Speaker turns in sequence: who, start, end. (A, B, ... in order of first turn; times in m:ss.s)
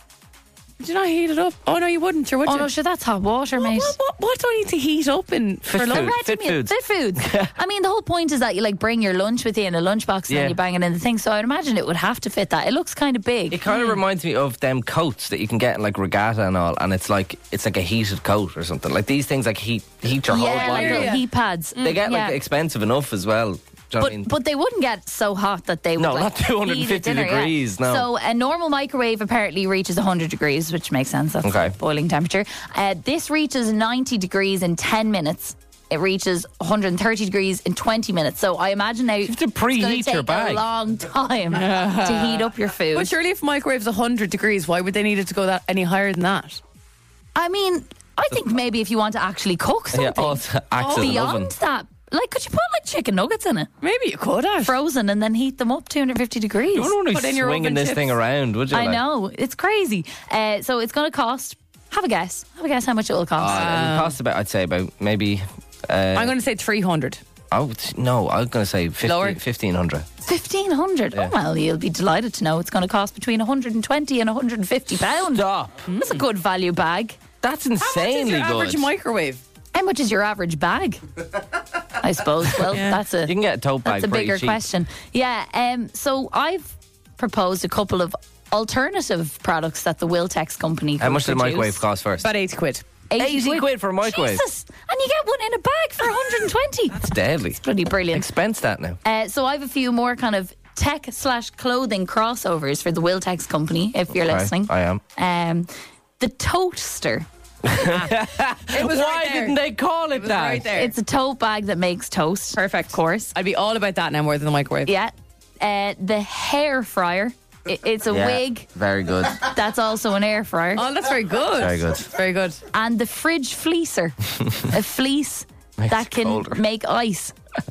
0:00.8-0:02.7 A
0:02.5-0:04.0 B
0:03.6-0:06.2 A
0:05.7-0:07.5 C
0:05.9-0:13.7 B
0:10.3-0:10.6 C
0:13.5-0:21.2 C
0:20.3-0:22.4 B
0:20.4-0:21.2 A
0:21.8-0:22.0 A
0:21.8-0:24.3 C
0:24.0-0:43.1 B
0:26.0-0:28.1 C
0:31.4-0:31.8 C
0:39.2-0:40.6 C
0:41.5-0:46.6 A
0:47.4-0:53.7 B
0:49.9-0:51.5 C
0:50.8-0:51.2 A
0:53.8-0:54.7 A
0:54.6-0:56.9 B
0:56.7-0:59.0 C
0:57.1-0:58.2 A
0:58.7-1:03.6 B
1:03.4-1:06.3 C
1:03.4-1:04.2 A
1:06.1-1:07.2 A
1:07.5-1:10.1 C
1:09.0-1:09.4 A
1:10.2-1:17.2 B
1:15.3-1:15.8 C
1:15.9-1:16.2 A
1:17.4-1:18.9 C
1:17.8-1:19.4 A
1:19.7-1:21.0 B
1:22.0-1:31.8 B
1:22.7-1:23.0 A
1:23.2-1:24.6 C
1:31.0-1:32.3 C
1:32.2-1:32.8 A
1:33.1-1:38.3 B
1:33.2-1:34.4 C
1:36.9-1:37.6 C
1:38.1-1:39.0 C
1:39.0-1:47.3 B
1:44.3-1:45.0 C
1:47.6-1:50.7 C
1:48.7-1:49.6 A
1:50.1-1:50.9 A
1:50.8-1:53.3 B
1:52.6-1:54.9 A
1:54.9-1:58.7 B
1:58.1-1:59.5 C
1:59.4-2:00.9 B
2:00.8-2:02.6 A
2:01.6-2:02.1 C
2:02.7-2:07.3 B
2:05.8-2:06.6 C